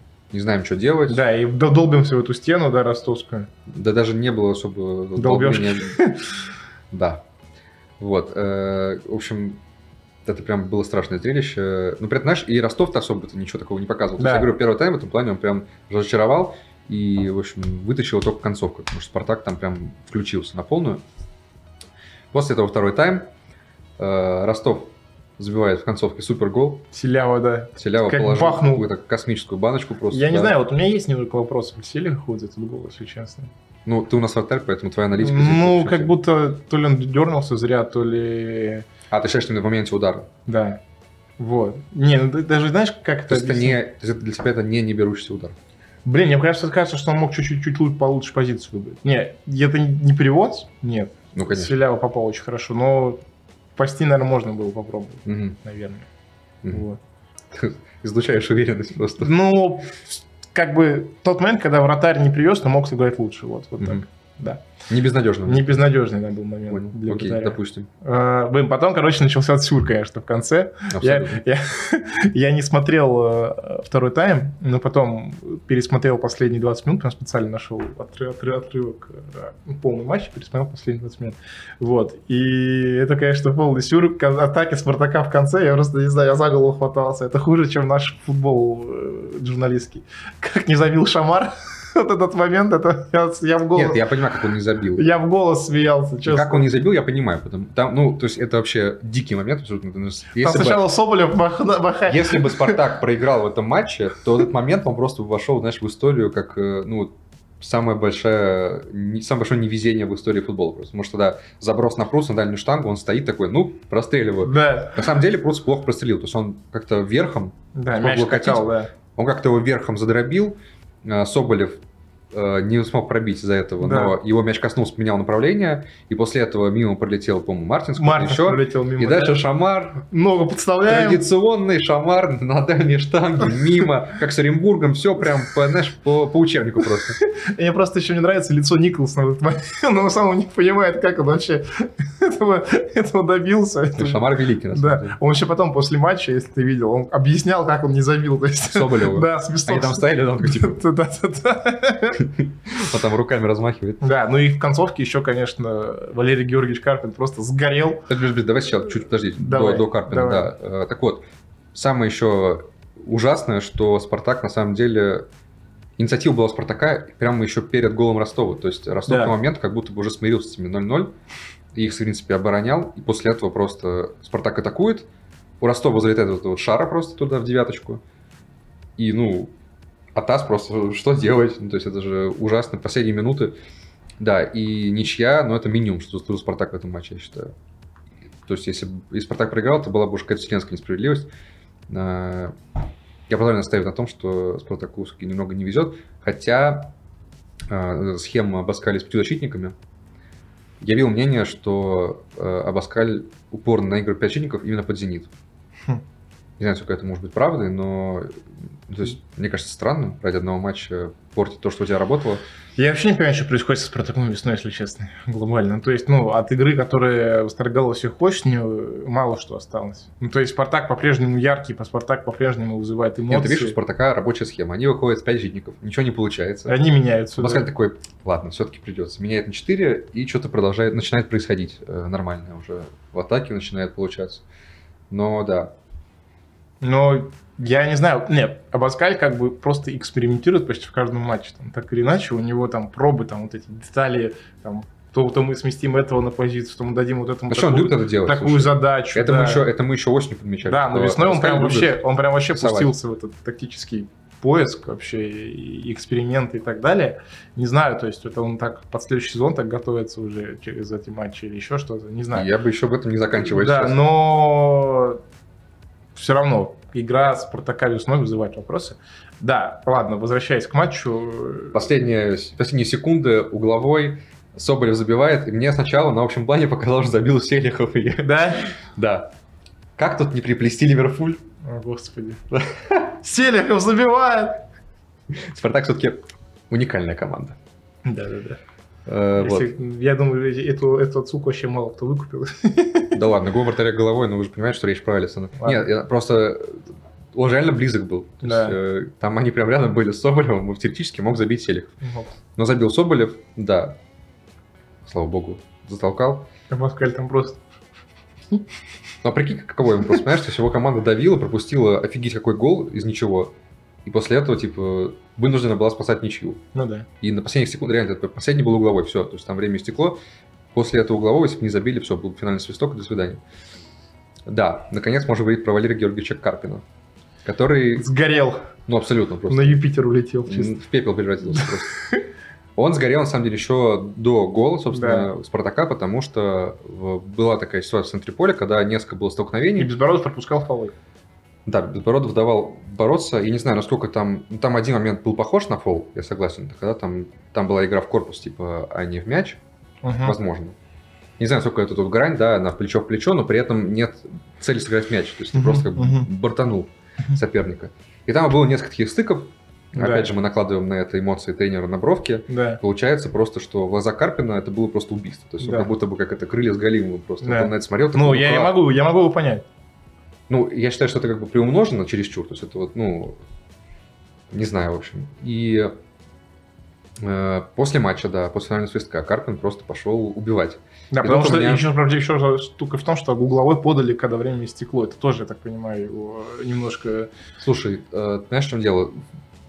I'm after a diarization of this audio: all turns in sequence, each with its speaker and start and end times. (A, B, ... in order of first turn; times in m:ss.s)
0:00.3-0:01.2 A
0:01.1-0:03.5 B
0:03.7-0:06.0 A
0:05.2-0:06.3 B
0:06.9-0:07.2 A
0:08.0-0:09.6 A
0:10.2-0:21.0 A
0:14.2-0:14.5 B
0:22.3-0:23.3 A
0:24.0-0:26.9 A
0:26.9-0:28.9 B
0:27.8-0:30.6 A
0:30.1-0:33.5 B
0:33.9-0:36.1 A
0:35.2-0:38.9 B
0:39.1-0:40.3 A
0:40.5-0:40.8 B
0:41.4-0:43.8 B
0:43.3-0:45.6 A
0:46.0-0:53.2 B
0:51.4-0:51.8 A
0:53.8-0:56.1 B
0:55.3-0:55.6 A
0:56.7-0:57.0 B
0:57.5-0:59.3 A
0:59.2-1:04.6 B
1:04.9-1:05.7 A
1:05.5-1:34.1 B
1:06.7-1:07.9 A
1:10.9-1:11.4 A
1:33.8-1:35.1 A
1:35.0-1:36.7 B
1:36.2-1:40.8 A
1:40.4-1:42.8 B
1:42.1-2:01.8 A
1:54.4-1:55.1 B
1:57.8-1:58.9 B
2:02.3-2:10.0 A
2:03.8-2:04.2 B
2:08.0-2:09.4 B
2:10.1-2:11.2 B
2:10.9-2:17.2 A
2:17.4-2:32.3 B
2:24.0-2:25.2 A
2:28.6-2:30.8 A
2:32.2-2:34.0 A
2:34.0-2:38.1 B
2:38.1-2:45.3 A
2:39.4-2:40.5 B
2:46.0-2:51.2 A
2:49.1-2:49.4 B
2:51.7-2:55.1 A
2:55.6-2:58.0 A
2:59.0-2:59.5 A
3:00.2-3:03.6 A
3:04.2-3:07.5 A
3:08.5-3:11.3 A
3:11.9-3:12.6 A
3:13.3-3:16.9 A
3:17.7-3:19.8 A
3:20.8-3:25.3 A
3:26.6-3:32.4 A
3:32.8-3:43.8 B
3:43.3-3:46.8 A
3:46.7-3:47.7 B
3:47.4-3:54.4 A
3:55.1-3:55.8 A
3:56.8-4:09.7 B
4:07.5-4:12.0 A
4:10.7-4:22.5 B
4:12.5-4:12.9 A
4:22.3-4:24.0 A
4:23.4-4:25.2 B
4:26.2-4:31.8 B
4:31.7-4:39.3 A
4:38.2-4:38.7 B
4:40.0-4:41.4 A
4:41.6-4:42.4 B
4:42.5-4:43.1 A
4:43.2-4:44.6 B
4:45.3-4:47.6 A
4:48.0-4:48.6 B
4:49.1-4:49.7 A
4:49.4-4:53.2 B
4:53.1-5:01.9 A
4:55.6-4:55.9 B
4:58.4-4:58.8 B
5:02.0-5:02.3 B
5:02.6-5:04.0 A
5:05.0-5:06.5 A
5:06.7-5:07.6 B
5:09.2-5:16.6 A
5:16.8-5:17.1 B
5:17.2-5:20.2 A
5:20.7-5:23.4 A
5:24.5-5:26.8 A
5:27.4-5:28.1 A
5:28.0-5:28.7 B
5:28.9-5:29.8 A
5:29.5-5:30.7 B
5:30.5-5:32.0 A
5:32.8-5:39.9 A
5:34.9-5:35.3 B
5:39.8-5:41.0 B
5:41.7-5:49.6 A
5:50.0-5:50.4 B
5:50.2-5:50.8 A
5:51.4-6:08.8 A
5:55.5-5:56.3 B
6:00.0-6:00.3 B
6:02.5-6:02.8 B
6:05.6-6:05.9 B
6:07.4-6:09.6 B
6:10.5-6:13.4 A
6:14.5-6:15.9 A
6:17.2-6:21.9 A
6:21.1-6:27.3 B
6:27.6-6:29.2 A